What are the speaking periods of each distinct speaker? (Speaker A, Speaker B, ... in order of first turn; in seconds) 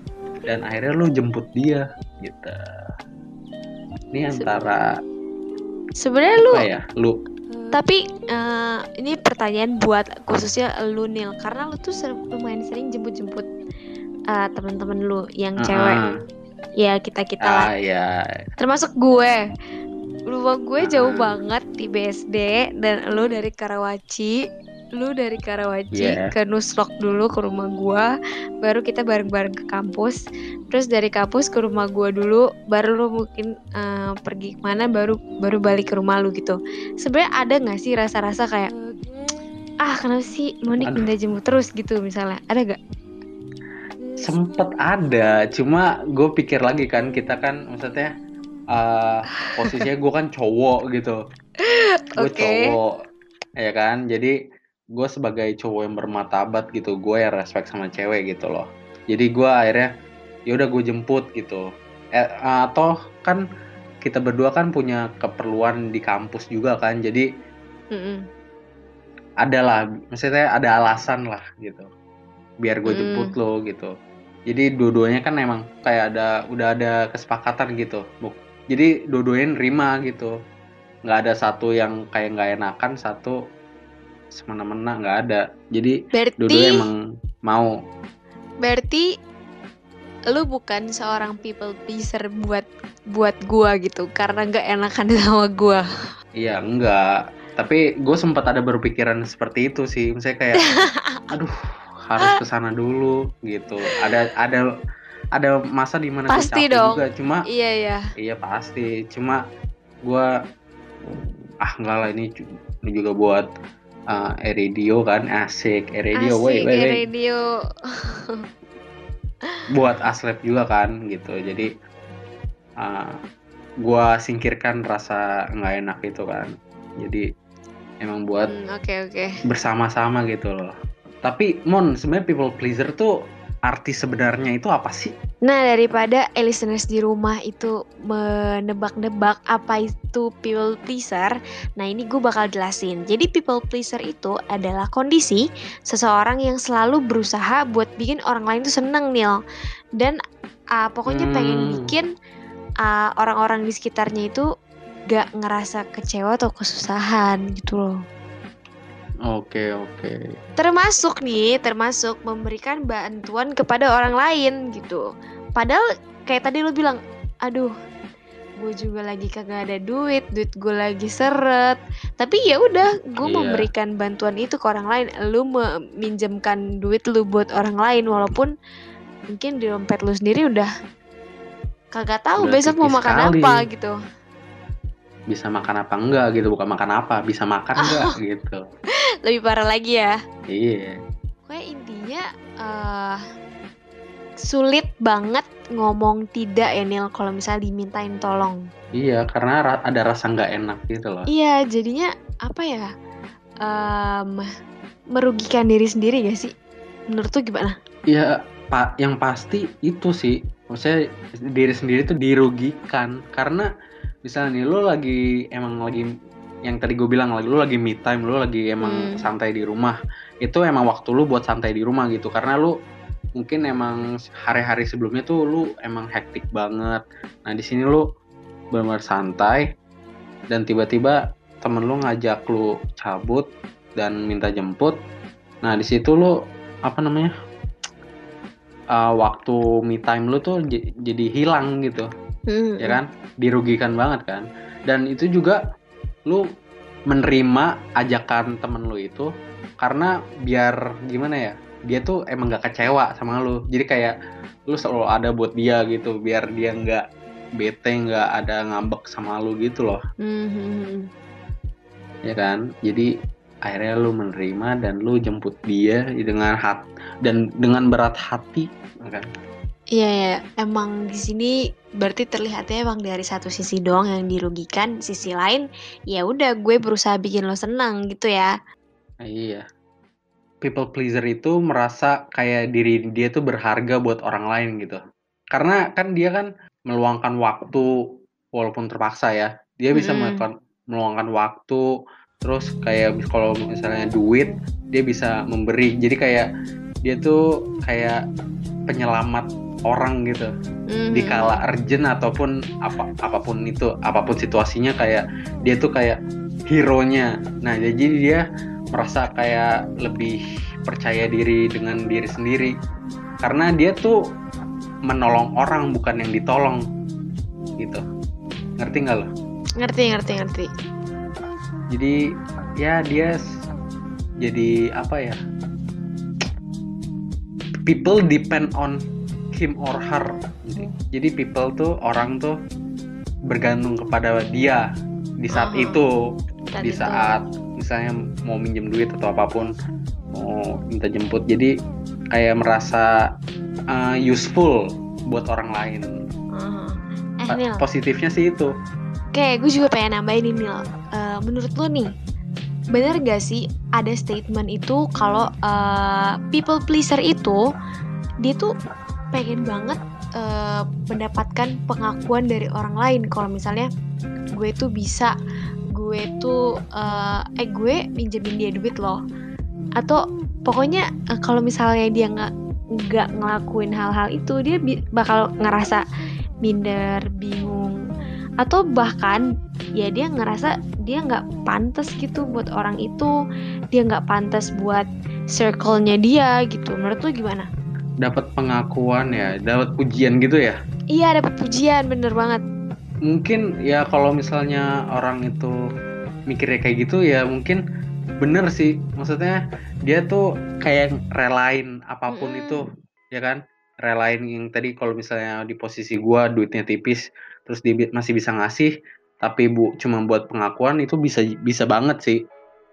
Speaker A: 0.5-2.6, 4.1-4.8, 6.4-7.2, 15.6-16.1, 17.4-18.1, 20.8-21.3, 25.9-26.3, 40.8-41.1, 44.2-48.1, 48.7-51.2, 52.2-52.9, 53.6-54.3, 54.9-59.9, 60.5-61.6, 62.2-63.4, 64.0-67.3, 69.4-71.9, 72.6-73.9, 74.5-80.3, 81.1-83.4, 84.3-87.7, 96.4-97.0, 97.6-101.5, 102.1-104.6, 105.3-107.4, 108.2-109.4, 111.6-112.3, 112.9-113.5, 114.1-117.0, 119.7-121.7, 122.8-123.2, 123.8-127.2, 128.0-128.5, 129.4-130.7, 131.2-133.1, 133.7-135.1, 151.1-151.9, 159.2-160.3, 173.2-173.7, 182.4-183.6, 185.3-188.6, 190.5-191.0, 199.0-201.3, 208.1-210.9, 211.5-213.7, 214.2-216.1, 216.7-222.7, 223.4-228.0, 228.7-229.6, 230.5-233.4, 234.0-234.9, 235.6-236.3, 236.8-237.3, 238.9-242.1, 242.8-245.6, 247.1-249.3, 249.8-254.1, 254.7-257.0, 257.6-260.0, 262.3-263.1, 263.6-269.3, 279.2-279.6, 280.6-285.0, 285.5-287.8, 288.6-291.8, 292.4-296.4, 297.0-298.2, 298.9-300.5, 301.1-306.2, 306.7-308.4, 308.9-312.7, 313.4-314.1, 315.1-316.8, 317.8-318.0, 318.8-319.3, 321.9-322.2, 322.8-323.4, 324.4-325.4, 327.9-329.0, 329.5-332.5, 333.5-334.8, 335.4-336.1, 336.8-339.7, 340.3-341.7, 342.3-343.1, 343.9-346.1, 347.5-348.7, 388.2-390.8, 393.3-395.7, 396.5-397.8, 398.4-408.9, 409.4-412.4
Speaker B: 6.0-6.7, 7.7-13.5, 14.3-16.0, 16.8-17.7, 18.6-19.4, 20.3-24.4, 25.0-28.1, 28.6-38.7, 39.8-42.8, 51.6-52.7, 67.9-68.2, 72.9-73.3, 86.1-86.8, 88.6-89.1, 90.3-95.8, 100.7-101.2, 106.3-108.0, 116.2-117.4, 118.0-118.4, 128.5-129.3, 135.4-149.4, 150.8-152.1, 152.8-154.5, 155.1-158.0, 160.6-165.0, 165.6-167.7, 168.6-178.5, 179.3-180.7, 181.9-183.9, 187.8-188.1, 189.2-190.2, 191.5-193.2, 194.5-198.6, 201.3-202.9, 203.6-204.4, 205.1-206.5, 207.1-207.7, 218.8-219.2, 242.5-243.0, 260.2-261.1, 269.9-278.5, 289.9-290.4, 300.9-301.6, 319.8-320.7, 335.5-336.0, 336.7-337.3, 346.5-347.8, 349.3-352.1, 352.9-357.6, 358.4-358.7, 359.3-363.9, 364.6-365.3, 365.9-369.2, 370.0-372.5, 373.1-376.0, 376.6-377.9, 378.6-379.4, 380.0-383.3, 383.9-387.7, 391.1-392.6, 402.3-402.8